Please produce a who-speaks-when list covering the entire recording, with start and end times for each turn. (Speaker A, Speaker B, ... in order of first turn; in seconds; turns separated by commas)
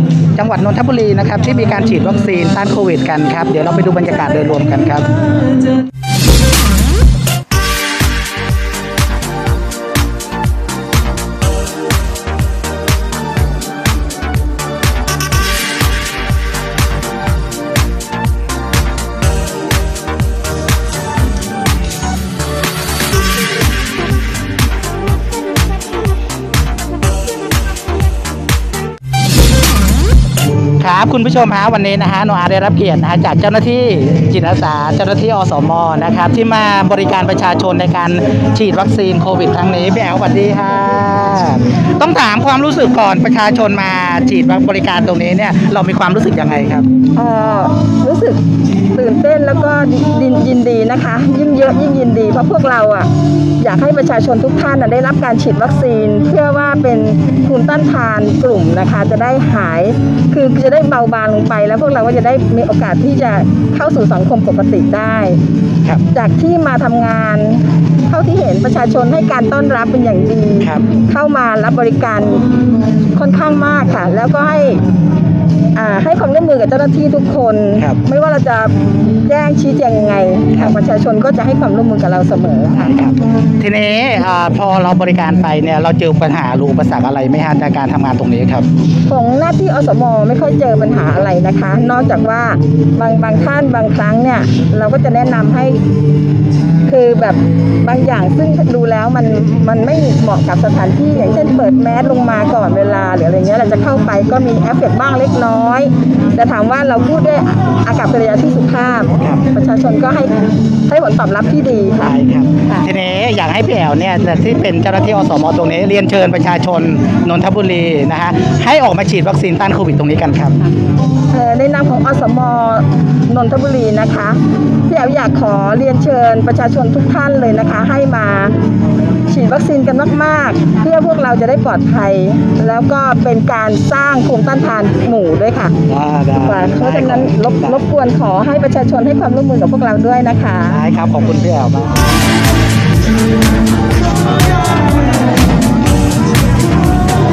Speaker A: 0.3-5.1, Speaker A: 30.8-46.9, Speaker B: 47.1-65.4, Speaker B: 66.1-72.5, Speaker B: 73.1-74.8, Speaker B: 75.7-83.0, Speaker A: 82.7-88.7, Speaker B: 89.1-95.8, Speaker B: 96.8-112.1, Speaker A: 112.0-120.6, Speaker B: 121.3-128.5, Speaker B: 129.3-135.8, Speaker A: 135.9-137.8, Speaker B: 136.4-140.8, Speaker A: 140.7-141.9